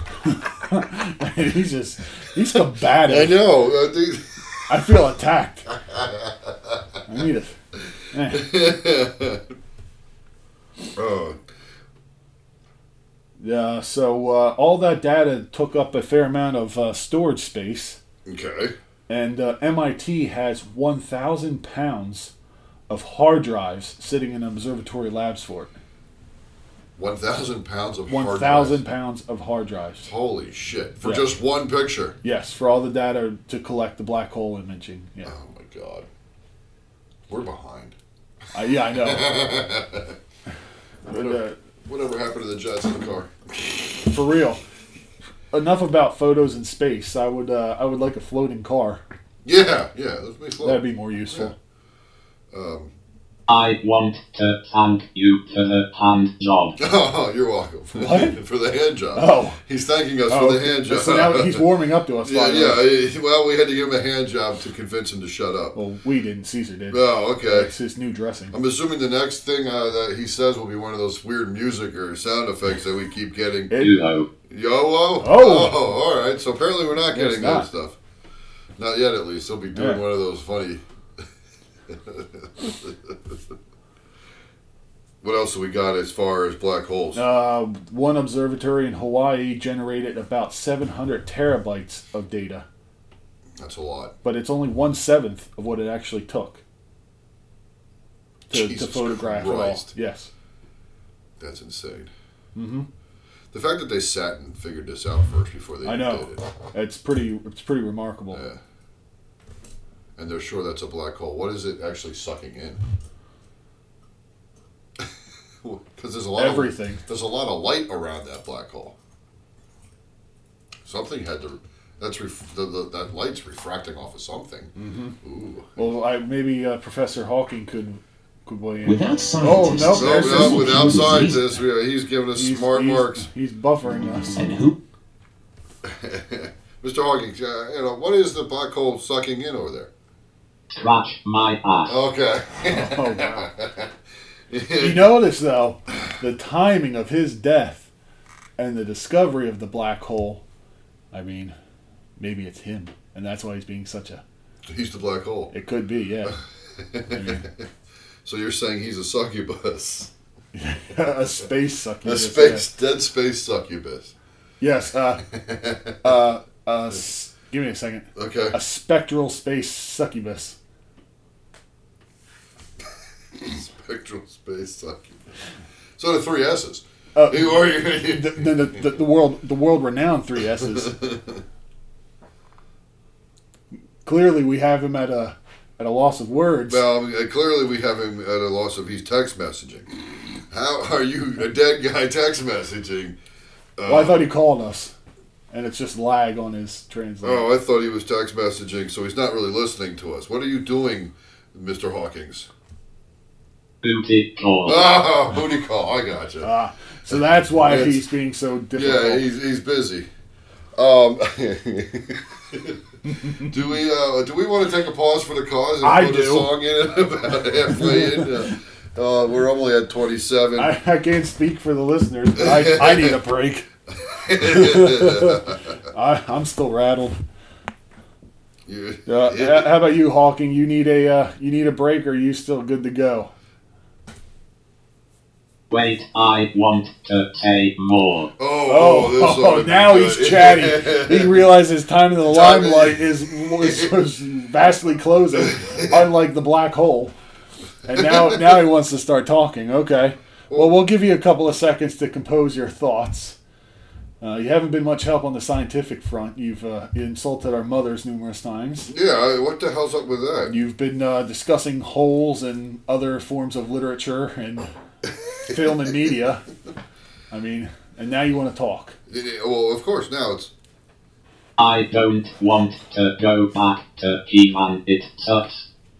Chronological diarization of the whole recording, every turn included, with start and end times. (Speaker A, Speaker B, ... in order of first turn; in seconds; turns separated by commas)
Speaker A: 0.2-3.4, Speaker B: 3.0-4.9, Speaker A: 4.7-5.7, Speaker B: 5.8-6.8, Speaker A: 7.1-7.5, Speaker A: 8.1-8.5, Speaker B: 8.3-9.4, Speaker B: 10.9-11.4, Speaker A: 13.4-18.0, Speaker B: 18.2-18.8, Speaker A: 19.1-22.3, Speaker A: 22.9-25.8, Speaker B: 26.9-28.8, Speaker A: 28.1-30.1, Speaker B: 30.0-32.2, Speaker A: 31.0-31.3, Speaker A: 32.2-35.3, Speaker B: 35.2-36.1, Speaker B: 37.3-37.9, Speaker A: 38.5-39.3, Speaker B: 38.9-40.2, Speaker A: 41.1-41.6, Speaker B: 41.1-44.0, Speaker A: 44.1-44.6, Speaker A: 45.5-49.0, Speaker B: 49.4-51.5, Speaker A: 50.6-51.5, Speaker B: 52.5-52.9, Speaker C: 53.5-56.8, Speaker B: 56.8-61.7, Speaker A: 57.9-58.4, Speaker A: 59.1-59.6, Speaker A: 60.3-62.8, Speaker B: 62.2-65.8, Speaker A: 65.7-68.5, Speaker B: 66.9-67.7, Speaker B: 68.5-73.8, Speaker C: 73.8-74.3, Speaker B: 74.5-78.0, Speaker A: 75.2-75.8, Speaker A: 77.1-77.7, Speaker B: 78.8-80.8, Speaker A: 79.7-80.0, Speaker B: 81.9-83.3, Speaker B: 85.2-87.2, Speaker A: 87.1-92.7, Speaker B: 93.6-94.1, Speaker A: 94.2-96.6, Speaker B: 98.5-99.9, Speaker A: 98.5-100.3, Speaker B: 101.4-102.1, Speaker A: 102.5-102.9, Speaker B: 103.5-106.5, Speaker A: 105.8-108.4, Speaker B: 108.3-108.6, Speaker B: 110.2-112.8, Speaker B: 115.6-118.9, Speaker A: 116.3-117.0, Speaker B: 120.8-125.9, Speaker A: 124.8-125.2, Speaker A: 125.8-130.9, Speaker D: 128.8-131.6, Speaker B: 129.9-133.3, Speaker A: 132.3-134.5, Speaker D: 134.3-134.8, Speaker B: 135.8-139.9, Speaker C: 140.7-141.9, Speaker B: 141.9-143.9, Speaker A: 142.7-143.5, Speaker B: 144.5-145.2, Speaker A: 144.8-147.9, Speaker A: 148.6-150.4, Speaker A: 151.1-151.5, Speaker A: 152.2-154.2, Speaker B: 154.7-155.5, Speaker A: 155.5-156.4, Speaker B: 156.2-157.6, Speaker A: 157.1-157.5, Speaker B: 158.2-160.1, Speaker A: 160.5-162.7, Speaker B: 162.0-164.1, Speaker A: 164.6-165.2, Speaker B: 165.3-165.9, Speaker A: 166.0-170.6, Speaker B: 168.1-168.6, Speaker B: 173.3-175.2, Speaker B: 176.0-178.8, Speaker A: 177.1-180.9, Speaker B: 180.6-181.4, Speaker A: 184.0-186.8, Speaker B: 186.7-189.9, Speaker B: 190.5-193.2, Speaker B: 193.8-194.2, Speaker A: 193.9-194.9, Speaker A: 195.5-197.4, Speaker B: 197.2-202.5, Speaker C: 203.8-204.8, Speaker B: 204.7-206.5, Speaker A: 206.4-209.2, Speaker B: 207.1-208.1, Speaker B: 208.7-210.1, Speaker B: 210.8-212.8, Speaker A: 213.2-213.5, Speaker B: 213.4-220.7, Speaker A: 215.8-216.5, Speaker A: 217.7-218.3, Speaker A: 220.6-223.7, Speaker B: 222.4-223.2, Speaker B: 223.9-225.6, Speaker A: 224.4-227.2, Speaker B: 228.7-229.7, Speaker A: 229.1-233.3, Speaker C: 235.7-238.3, Speaker B: 238.4-241.4, Speaker A: 238.7-247.1, Speaker B: 242.2-243.9, Speaker B: 245.4-246.0, Speaker A: 247.8-253.4, Speaker B: 247.9-248.7, Speaker B: 250.5-250.8, Speaker A: 254.2-258.9, Speaker B: 258.9-260.5, Speaker A: 260.5-264.7, Speaker A: 265.5-266.4, Speaker A: 267.3-269.0, Speaker B: 269.1-270.5, Speaker C: 271.6-275.6